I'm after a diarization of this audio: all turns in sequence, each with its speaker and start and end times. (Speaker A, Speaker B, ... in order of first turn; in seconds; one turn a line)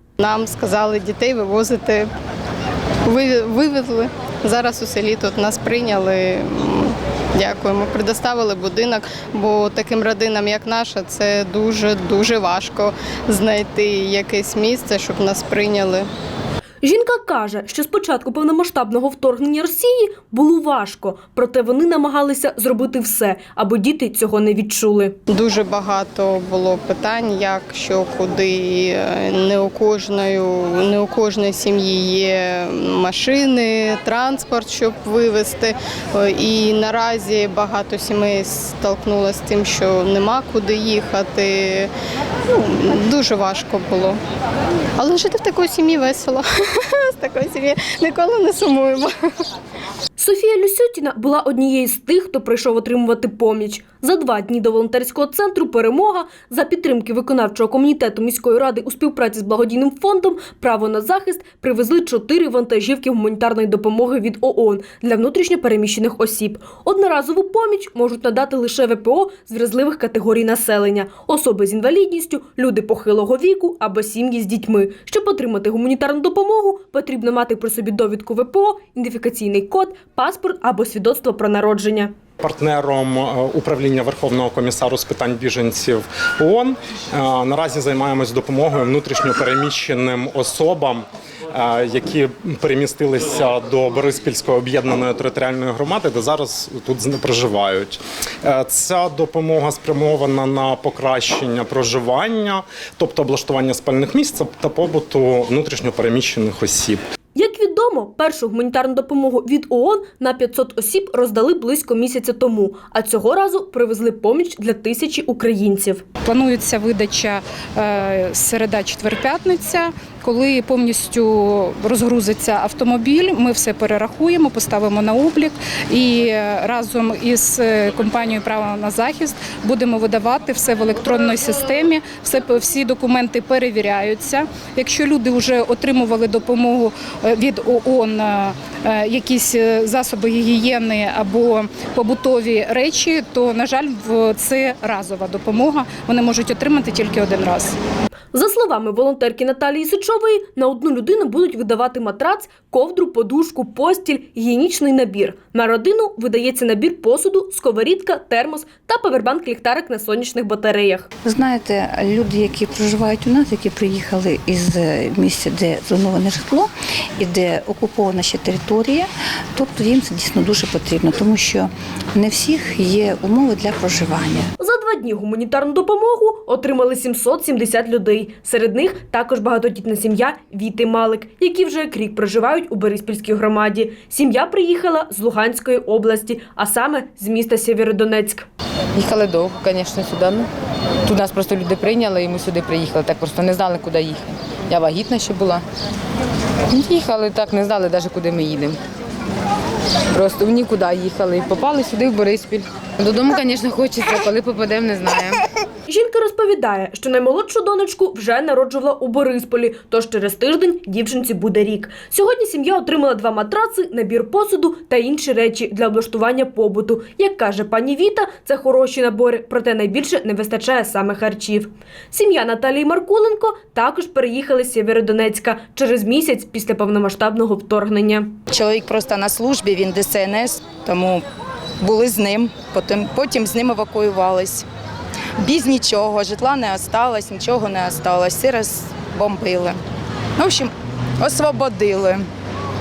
Speaker A: 0.2-2.1
Speaker A: 3.1-16.1
Speaker B: 16.8-25.2
Speaker A: 25.3-41.9
Speaker A: 42.5-44.2
Speaker A: 45.0-49.1
Speaker B: 50.2-82.1
Speaker C: 82.4-107.0
Speaker B: 107.3-116.0
Speaker D: 116.3-147.8
Speaker B: 148.3-161.1
Speaker E: 161.2-174.5
Speaker B: 174.6-188.5
Speaker F: 188.9-190.5
Speaker F: 191.1-195.7
Speaker F: 196.7-198.8
Speaker F: 200.1-205.4
Speaker B: 205.9-228.3
Speaker G: 228.5-231.2
Speaker G: 231.8-234.7
Speaker G: 235.4-239.8
Speaker G: 240.4-242.2